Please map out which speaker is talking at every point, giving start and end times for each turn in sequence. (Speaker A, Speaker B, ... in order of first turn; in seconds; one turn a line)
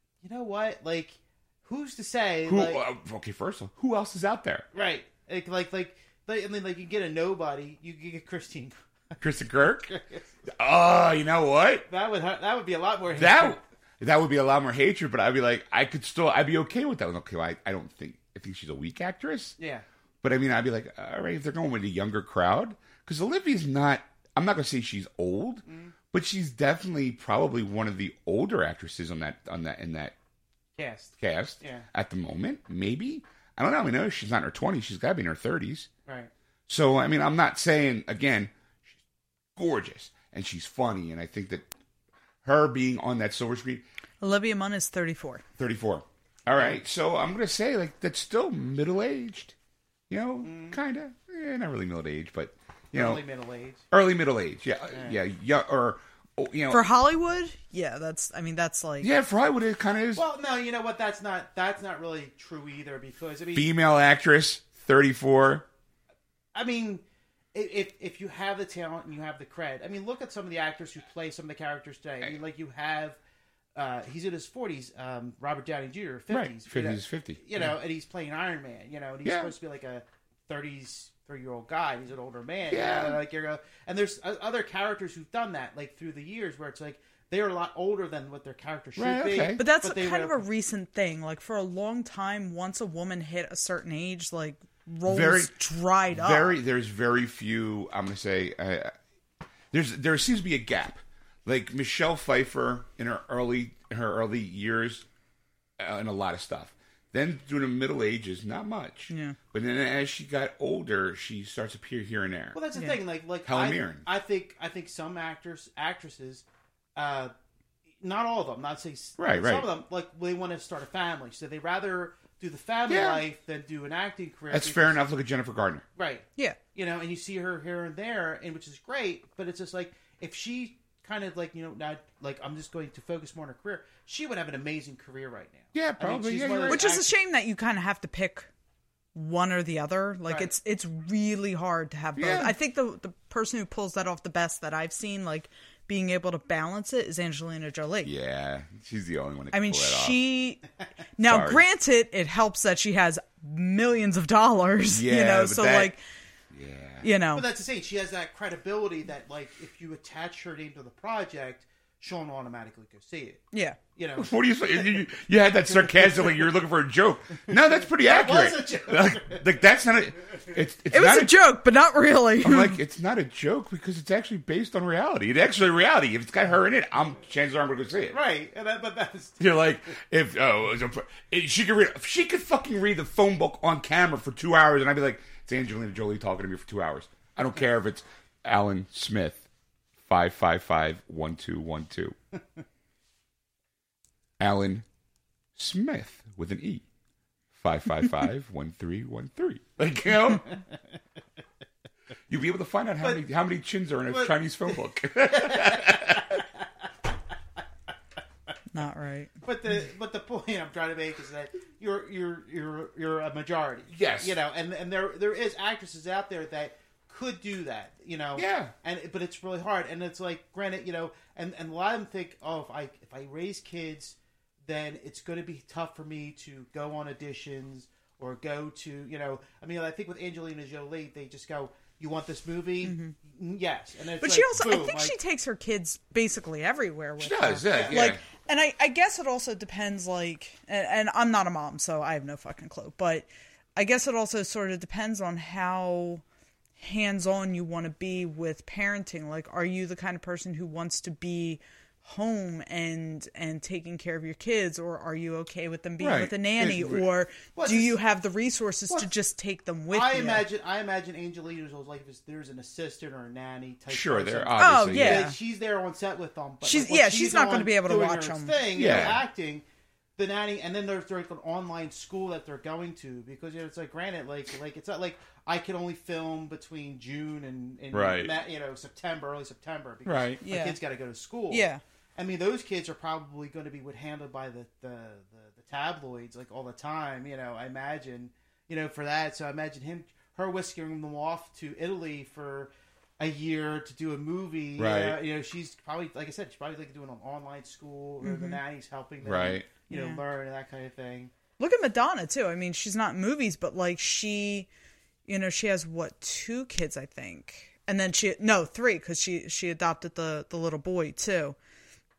Speaker A: 0.2-2.8
Speaker B: 2.5-4.7
Speaker A: 4.7-8.8
Speaker B: 9.2-9.9
Speaker A: 9.8-10.3
Speaker B: 10.5-11.9
Speaker A: 11.9-13.6
Speaker B: 13.1-19.6
Speaker A: 19.6-19.9
Speaker B: 20.2-30.1
Speaker A: 25.6-25.9
Speaker A: 30.8-31.9
Speaker B: 31.2-35.9
Speaker A: 36.1-36.3
Speaker B: 36.7-38.9
Speaker B: 39.6-41.7
Speaker B: 42.5-43.8
Speaker C: 44.2-45.4
Speaker B: 45.6-49.5
Speaker B: 50.1-53.2
Speaker A: 50.4-50.8
Speaker A: 52.9-53.8
Speaker B: 53.9-56.8
Speaker A: 54.9-55.2
Speaker C: 56.7-59.1
Speaker B: 59.0-60.2
Speaker A: 60.2-63.7
Speaker B: 63.5-65.7
Speaker A: 66.5-67.0
Speaker A: 67.5-73.2
Speaker A: 73.8-90.4
Speaker B: 76.3-77.7
Speaker B: 79.2-79.5
Speaker B: 82.7-83.2
Speaker B: 89.0-89.6
Speaker C: 89.6-96.6
Speaker B: 95.1-95.5
Speaker B: 96.1-98.9
Speaker B: 99.7-105.1
Speaker B: 105.8-112.6
Speaker C: 109.1-109.4
Speaker A: 112.5-116.5
Speaker B: 113.5-114.0
Speaker A: 117.0-117.3
Speaker A: 118.0-125.0
Speaker B: 119.2-119.7
Speaker B: 122.9-123.2
Speaker B: 124.5-125.9
Speaker A: 126.0-137.1
Speaker B: 135.7-136.8
Speaker C: 136.7-138.5
Speaker C: 139.2-148.1
Speaker A: 140.3-140.5
Speaker B: 142.2-142.6
Speaker B: 148.0-150.2
Speaker C: 149.5-150.6
Speaker C: 151.2-156.0
Speaker B: 151.2-151.6
Speaker B: 154.9-155.9
Speaker B: 156.5-157.1
Speaker C: 157.0-157.5
Speaker A: 157.3-163.4
Speaker C: 163.5-163.8
Speaker A: 163.9-164.3
Speaker B: 164.2-171.4
Speaker A: 165.7-166.4
Speaker A: 167.5-169.5
Speaker C: 170.9-172.8
Speaker B: 172.4-178.2
Speaker A: 178.1-179.5
Speaker B: 179.4-189.5
Speaker B: 190.0-192.2
Speaker B: 194.4-194.8
Speaker B: 195.6-196.8
Speaker B: 197.5-200.6
Speaker B: 202.3-206.4
Speaker A: 204.1-204.4
Speaker A: 205.3-206.7
Speaker C: 208.7-209.3
Speaker A: 209.4-235.2
Speaker B: 213.9-214.4
Speaker B: 218.4-218.7
Speaker C: 232.8-233.2
Speaker C: 234.2-246.2
Speaker B: 237.2-238.2
Speaker A: 237.7-238.1
Speaker C: 246.8-260.5
Speaker B: 256.0-257.0
Speaker A: 257.5-258.0
Speaker A: 259.9-269.6
Speaker B: 263.9-265.3
Speaker C: 264.6-265.4
Speaker C: 266.6-268.6
Speaker B: 268.8-269.2
Speaker A: 270.2-281.6
Speaker B: 277.9-278.4
Speaker B: 280.1-280.4
Speaker C: 280.4-280.8
Speaker C: 281.5-281.8
Speaker A: 282.2-301.3
Speaker B: 294.8-295.2
Speaker C: 298.2-298.6
Speaker B: 299.2-299.7
Speaker C: 299.9-300.2
Speaker C: 301.6-304.7
Speaker C: 305.3-311.6